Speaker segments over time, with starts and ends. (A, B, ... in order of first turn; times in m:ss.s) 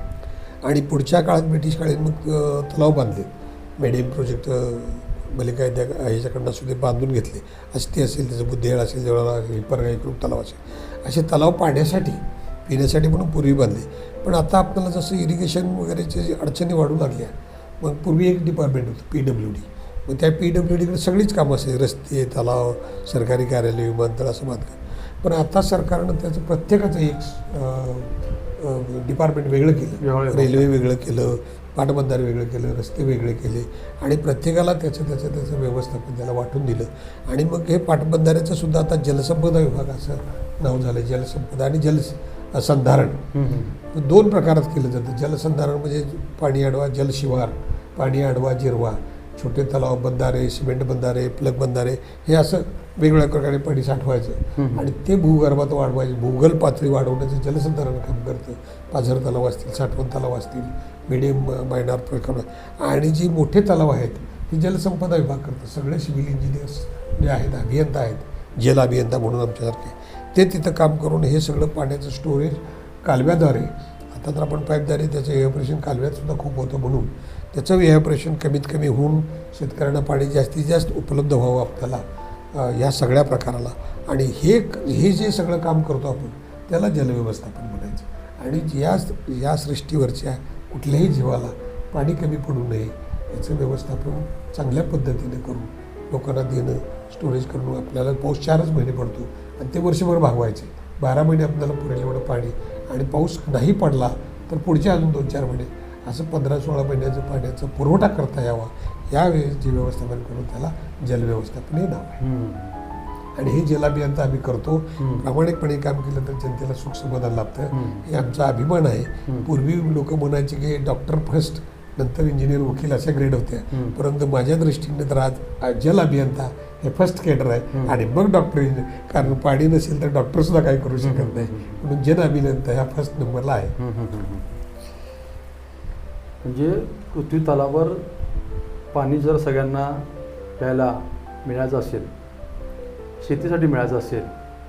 0:00.6-0:43.3 A
0:30.0-0:30.7 B
0:43.3-0:43.8 B
0:43.9-1:52.2 A
0:54.6-0:54.9 B
1:52.2-1:52.8 B
1:53.4-2:13.8 A
1:55.0-1:55.3 B
1:57.7-1:58.1 B
2:03.7-2:04.0 B
2:11.0-2:11.8 B
2:13.8-2:14.5 B
2:16.4-2:18.0 B
2:18.9-2:20.1 B
2:20.6-2:22.1 B
2:23.2-2:24.3 B